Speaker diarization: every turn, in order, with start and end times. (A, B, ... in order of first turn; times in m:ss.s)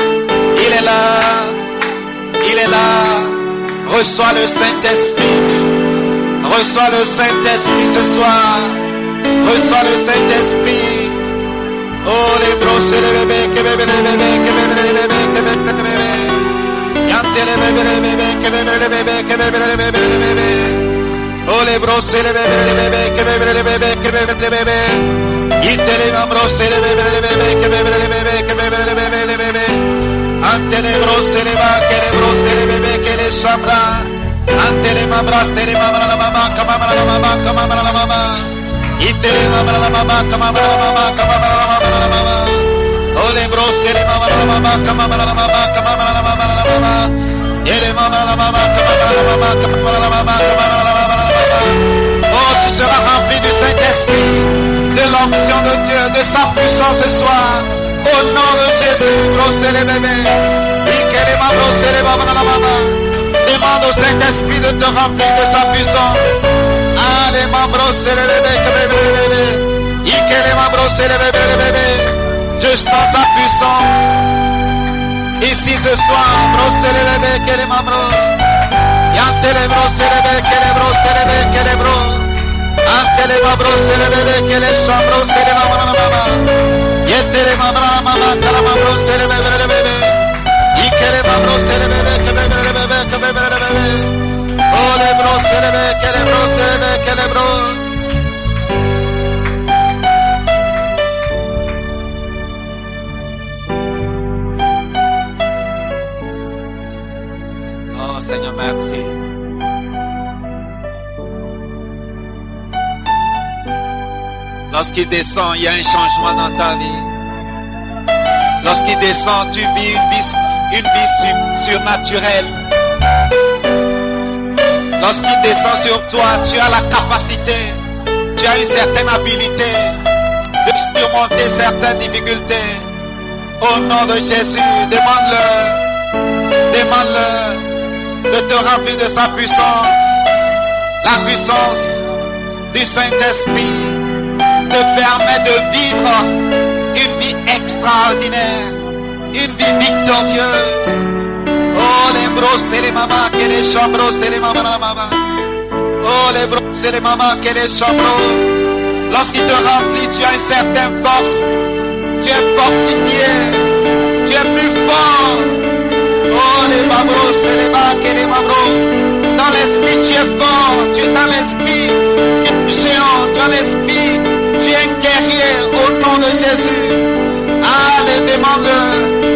0:00.5-0:01.6 A
0:02.4-0:05.8 A
0:06.4-0:08.8 A
0:09.4-0:11.2 A
0:12.0-0:16.5 A
0:17.0-0:20.9 A
0:21.4-0:29.8 A
0:30.4-1:06.4 A
1:06.9-1:14.3 A
1:15.4-1:18.4 A
1:19.1-1:22.3 A
1:22.8-1:26.5 A
1:27.0-1:30.2 A
1:30.7-1:34.2 A
1:34.7-1:37.8 A
1:47.9-1:49.2 A
1:54.7-1:57.1 A
1:58.6-2:02.6 A
2:05.0-2:07.8 A
2:08.3-2:10.0 A
2:10.6-2:12.9 A
2:13.6-2:15.8 A
2:16.7-2:17.6 A
2:18.3-2:20.2 A
2:21.0-2:22.1 A
2:22.7-2:24.1 A
2:24.7-2:28.8 A
2:29.3-2:31.0 A
2:31.7-2:35.2 A
2:36.0-2:41.5 A
2:42.2-2:45.6 A
2:46.3-2:57.1 A
2:57.6-2:59.2 A